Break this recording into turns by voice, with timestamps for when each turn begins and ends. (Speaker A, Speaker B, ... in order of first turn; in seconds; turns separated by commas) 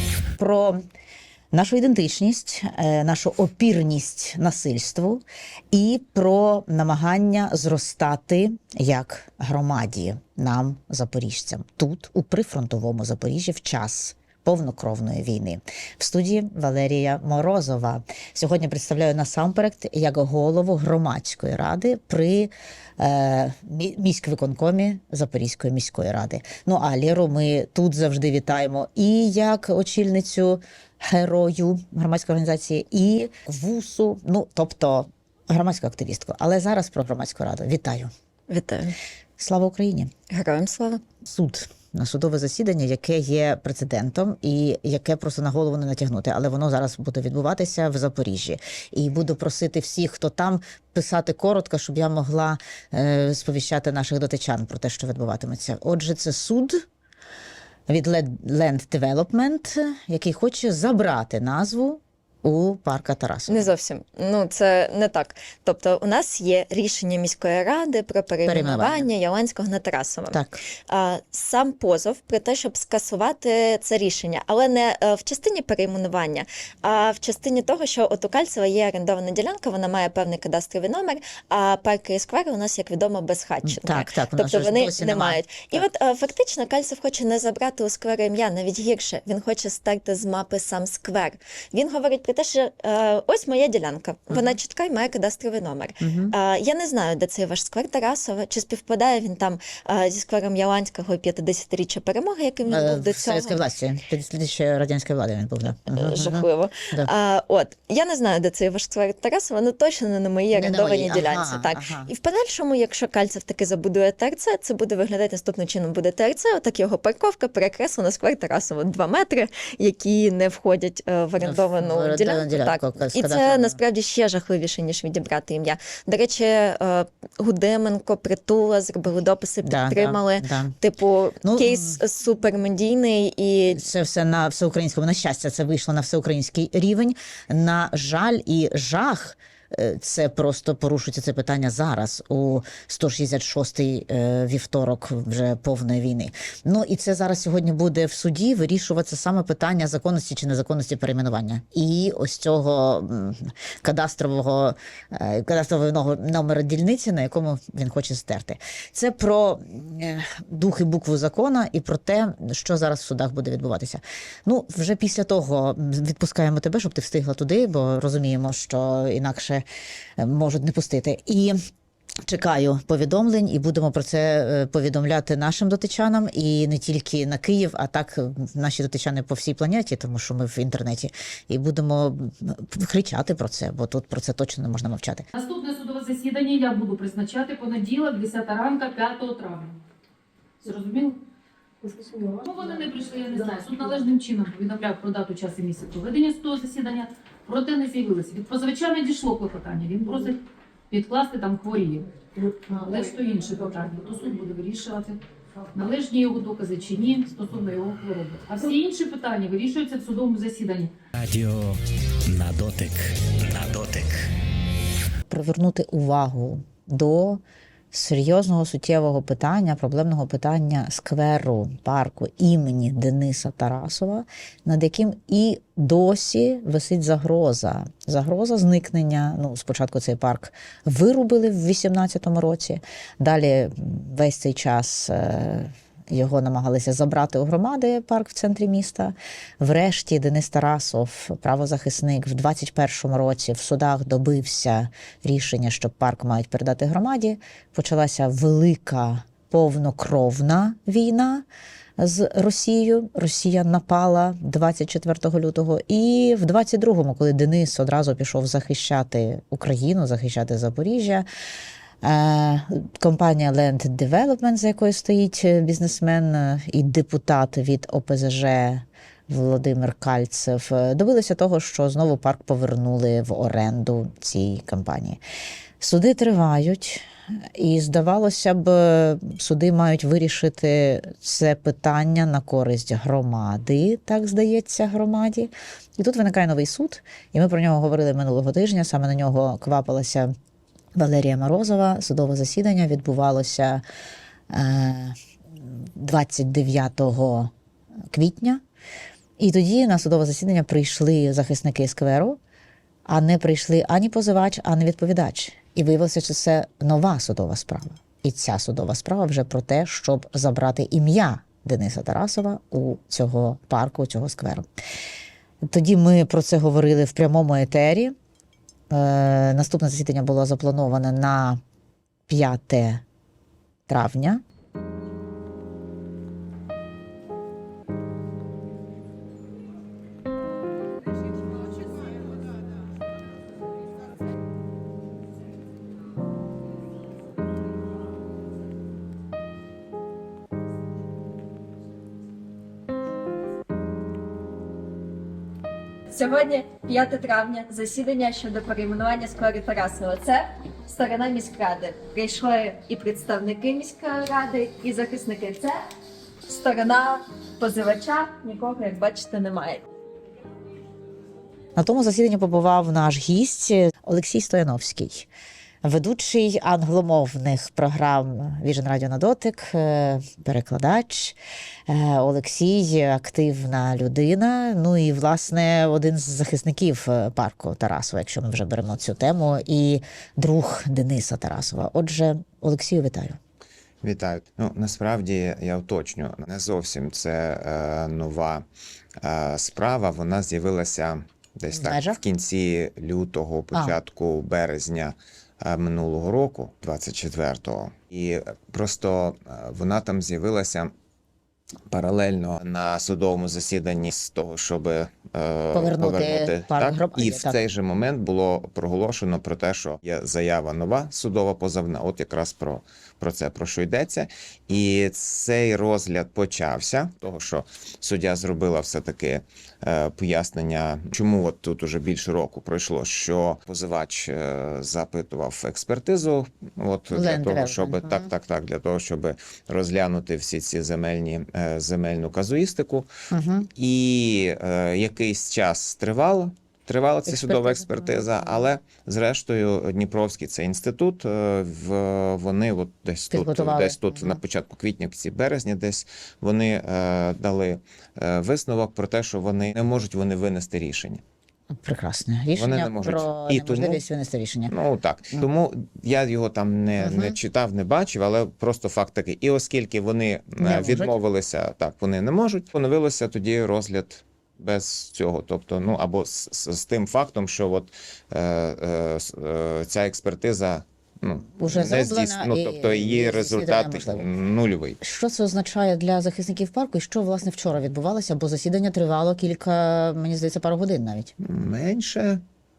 Speaker A: 0.4-0.8, Speaker A: 1.5-38.1, Speaker B: 38.5-39.0, Speaker A: 39.4-40.1, Speaker B: 40.3-41.0, Speaker A: 41.2-56.8, Speaker A: 57.9-63.7, Speaker B: 63.5-70.4, Speaker A: 68.5-69.1, Speaker A: 70.3-70.6, Speaker B: 70.9-103.6, Speaker A: 83.6-85.8, Speaker A: 96.0-96.3, Speaker A: 102.7-107.1, Speaker B: 105.9-133.8, Speaker A: 110.5-112.1, Speaker A: 121.4-123.8, Speaker A: 129.6-130.8, Speaker A: 131.4-132.0, Speaker A: 133.7-169.7, Speaker A: 170.2-171.6, Speaker A: 172.3-185.3, Speaker C: 185.4-189.8, Speaker C: 190.6-191.2, Speaker C: 191.9-200.4, Speaker C: 200.9-202.1, Speaker C: 202.7-205.2, Speaker C: 205.7-210.9, Speaker D: 211.2-214.3, Speaker A: 215.3-251.5, Speaker A: 252.0-261.3, Speaker A: 262.0-275.2, Speaker A: 275.8-277.0, Speaker A: 277.6-290.3, Speaker A: 291.0-293.8, Speaker A: 294.5-297.5, Speaker A: 298.1-298.6, Speaker A: 299.4-302.4, Speaker A: 303.1-314.7, Speaker A: 315.7-318.1, Speaker A: 318.9-321.6, Speaker A: 322.3-323.0, Speaker A: 323.9-324.4, Speaker B: 346.1-355.8, Speaker B: 356.5-359.8, Speaker A: 361.8-365.3, Speaker A: 365.8-371.4, Speaker A: 371.9-383.4, Speaker E: 384.0-388.7, Speaker E: 389.2-400.9, Speaker A: 391.7-392.2, Speaker E: 401.9-433.1, Speaker A: 405.7-407.6, Speaker A: 427.1-428.3, Speaker A: 433.3-433.7, Speaker E: 433.8-451.2, Speaker A: 437.3-438.7, Speaker A: 443.3-444.4, Speaker A: 451.7-454.7, Speaker E: 452.6-454.0, Speaker E: 454.7-475.0, Speaker A: 457.0-457.4, Speaker A: 460.6-461.1, Speaker A: 471.6-474.3, Speaker A: 475.0-481.3, Speaker E: 481.4-482.4